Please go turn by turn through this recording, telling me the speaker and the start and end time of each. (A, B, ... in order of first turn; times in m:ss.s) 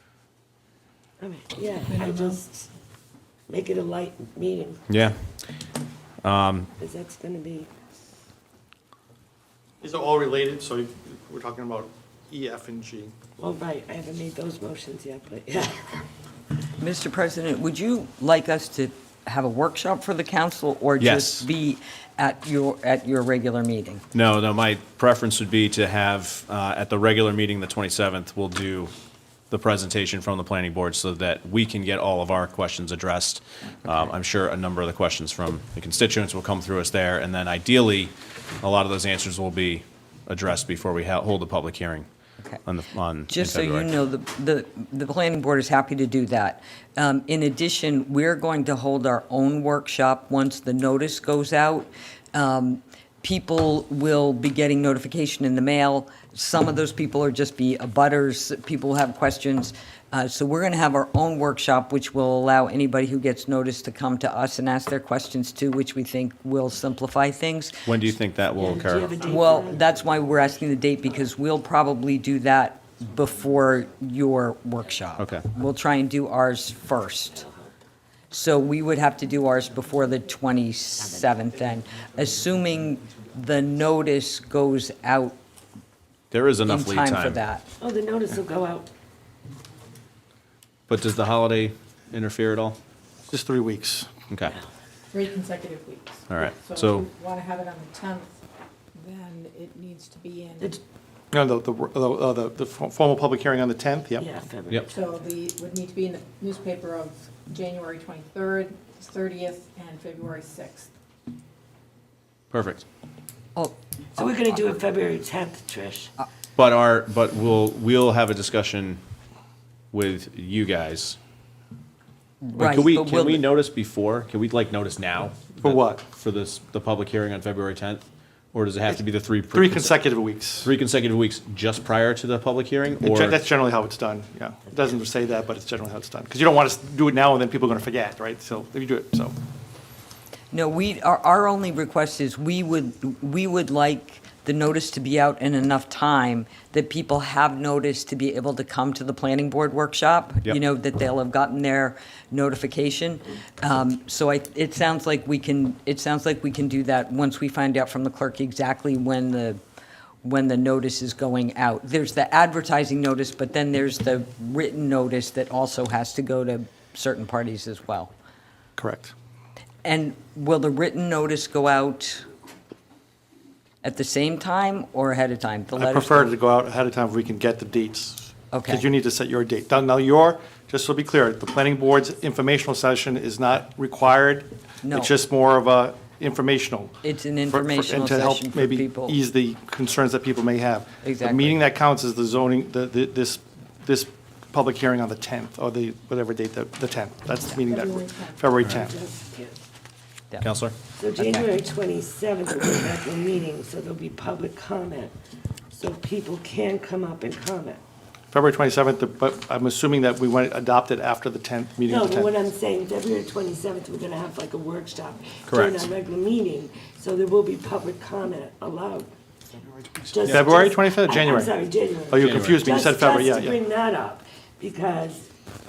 0:01.2-0:02.7 A
0:02.0-0:02.4 B
0:03.5-0:04.8 A
0:04.9-0:05.2 C
0:06.2-0:06.7 C
0:06.8-0:07.7 A
0:09.8-0:13.1 D
0:13.4-0:16.0 A
0:16.8-0:24.0 E
0:21.0-0:21.5 C
0:24.1-0:28.9 C
0:29.5-0:42.1 C
0:42.6-0:43.9 C
0:43.3-1:07.8 E
1:07.8-1:09.2 C
1:08.6-1:09.9 A
1:09.2-1:17.4 E
1:15.2-1:15.5 C
1:17.3-1:17.7 A
1:18.3-1:25.4 E
1:26.3-1:27.4 C
1:26.6-1:27.7 E
1:27.8-1:28.9 A
1:30.9-1:32.8 C
1:33.3-1:34.1 D
1:34.3-1:34.6 C
1:35.1-1:38.4 B
1:36.3-1:37.1 C
1:39.0-1:40.8 B
1:41.3-1:44.3 D
1:44.2-1:45.1 A
1:44.9-1:50.9 B
1:52.5-1:52.8 C
1:53.6-1:54.2 E
1:54.2-1:56.1 A
1:56.6-1:59.0 C
1:59.9-2:01.2 C
2:02.4-2:03.5 E
2:02.5-2:10.0 C
2:05.6-2:06.0 D
2:09.5-2:10.7 D
2:10.6-2:13.4 C
2:13.0-2:19.3 D
2:20.5-2:39.6 E
2:40.2-2:48.1 E
2:48.8-2:49.1 D
2:49.8-2:52.3 E
2:53.8-2:56.3 E
2:55.8-3:07.0 D
2:58.5-2:58.8 E
3:04.8-3:05.1 E
3:07.0-3:09.2 E
3:07.5-3:19.0 D
3:11.0-3:11.6 E
3:17.6-3:18.4 B
3:18.6-3:19.6 A
3:20.4-3:20.8 C
3:21.0-3:25.2 A
3:21.2-3:21.5 E
3:25.7-3:27.8 A
3:28.3-3:32.3 D
3:31.8-3:39.1 A
3:35.5-3:35.8 C
3:40.1-3:45.3 A
3:40.3-3:41.6 D
3:42.1-3:43.6 D
3:42.2-3:42.7 C